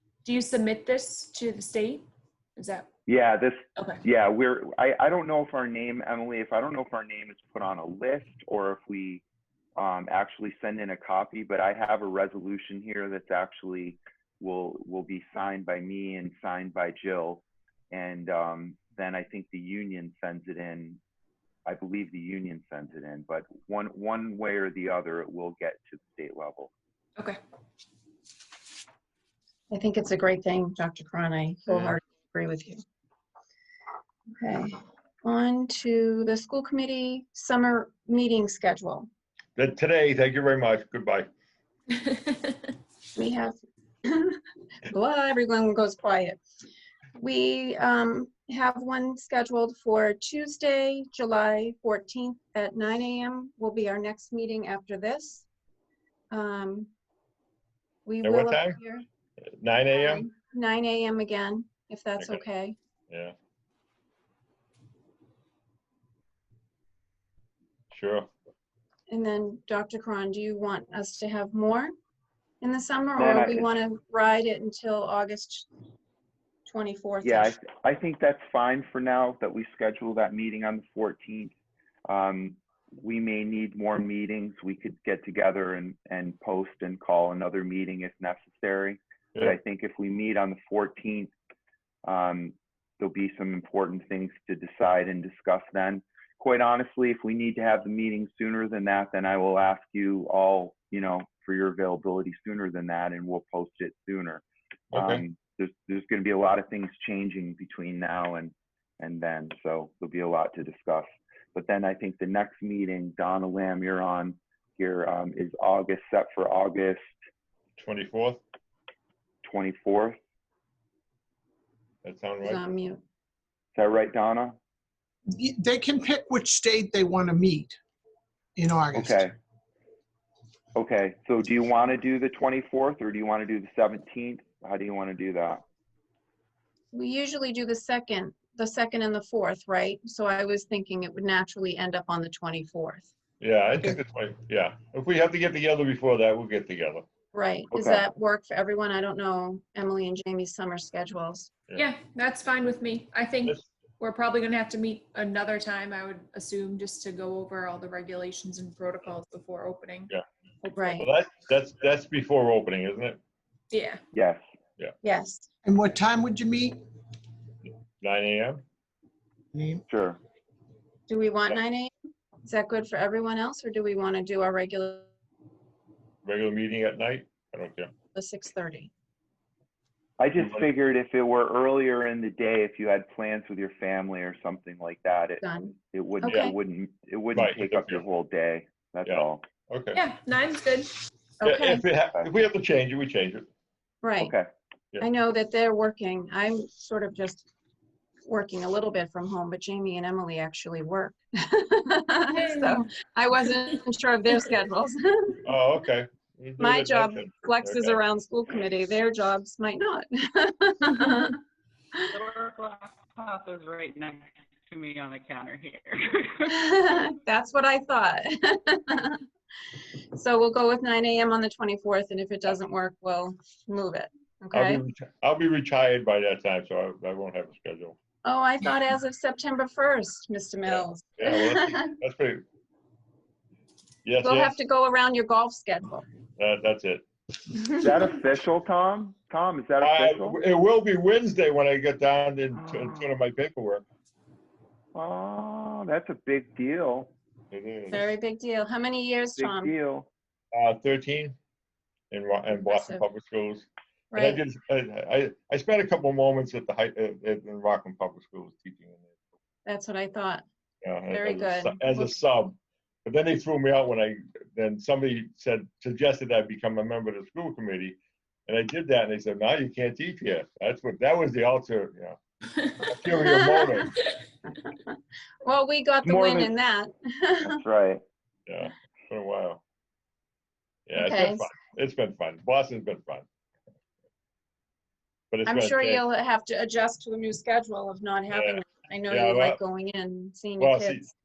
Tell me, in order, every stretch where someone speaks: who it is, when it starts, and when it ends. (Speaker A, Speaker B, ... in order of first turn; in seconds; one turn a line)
Speaker A: 0.2-2.0
Speaker A: 2.6-2.9
Speaker B: 3.1-9.2
Speaker B: 9.8-21.0
Speaker B: 21.6-26.7
Speaker C: 29.7-32.8
Speaker D: 31.7-32.0
Speaker C: 34.4-39.1
Speaker D: 39.6-41.3
Speaker A: 42.1-42.5
Speaker C: 43.1-46.4
Speaker C: 47.2-55.5
Speaker C: 56.3-56.9
Speaker C: 58.0-59.0
Speaker D: 58.2-58.8
Speaker D: 59.6-60.2
Speaker C: 59.9-62.8
Speaker D: 67.9-68.3
Speaker C: 69.1-71.9
Speaker C: 72.6-75.7
Speaker B: 73.2-73.7
Speaker C: 76.7-77.5
Speaker B: 77.2-81.5
Speaker B: 82.1-91.3
Speaker B: 92.0-104.4
Speaker D: 104.9-105.2
Speaker B: 104.9-117.1
Speaker D: 117.8-118.4
Speaker B: 119.4-120.2
Speaker D: 122.0-122.6
Speaker C: 122.4-123.0
Speaker B: 123.7-124.6
Speaker E: 125.3-127.8
Speaker E: 128.6-129.2
Speaker B: 128.9-129.3
Speaker B: 130.8-135.6
Speaker C: 136.9-143.1
Speaker D: 143.4-147.1
Speaker C: 147.3-151.5
Speaker B: 147.7-148.0
Speaker A: 151.7-160.1
Speaker C: 160.6-161.1
Speaker D: 160.8-163.2
Speaker A: 163.7-164.0
Speaker B: 164.1-164.4
Speaker C: 165.0-165.5
Speaker E: 165.6-166.8
Speaker D: 168.0-168.6
Speaker E: 169.5-169.8
Speaker B: 169.9-170.2
Speaker C: 171.1-171.9
Speaker C: 172.4-175.1
Speaker D: 176.2-177.9
Speaker C: 178.1-178.9
Speaker B: 180.2-189.4
Speaker D: 180.3-180.7
Speaker C: 185.4-186.5
Speaker D: 186.2-186.5
Speaker D: 187.3-188.0
Speaker D: 189.0-190.0
Speaker A: 189.9-190.9
Speaker C: 191.4-191.8
Speaker D: 191.4-193.5
Speaker C: 194.0-194.3
Speaker B: 194.2-194.5
Speaker C: 195.0-197.5
Speaker C: 198.2-205.4
Speaker D: 205.4-208.0
Speaker C: 206.6-211.4
Speaker F: 212.1-216.6
Speaker C: 216.5-219.2
Speaker C: 220.1-224.8
Speaker D: 224.5-228.0
Speaker C: 228.2-231.9
Speaker D: 230.6-232.4
Speaker D: 234.0-234.6
Speaker C: 234.2-236.0
Speaker D: 236.4-237.0
Speaker B: 237.8-240.4
Speaker D: 239.8-243.8
Speaker B: 242.6-243.1
Speaker B: 244.9-247.1
Speaker D: 247.5-248.0
Speaker C: 247.9-249.7
Speaker B: 249.3-250.1
Speaker D: 250.5-251.3
Speaker D: 252.1-259.1
Speaker C: 252.5-253.0
Speaker C: 254.1-254.4
Speaker C: 259.6-260.4
Speaker D: 260.8-272.2
Speaker C: 261.1-262.2
Speaker D: 272.7-273.9
Speaker C: 273.2-273.8
Speaker C: 275.4-277.6
Speaker B: 276.0-276.5
Speaker B: 277.4-278.0
Speaker D: 278.5-279.6
Speaker D: 280.9-283.2
Speaker C: 280.9-281.5
Speaker D: 285.3-286.1
Speaker C: 285.4-291.1
Speaker D: 288.3-289.6
Speaker D: 290.6-291.0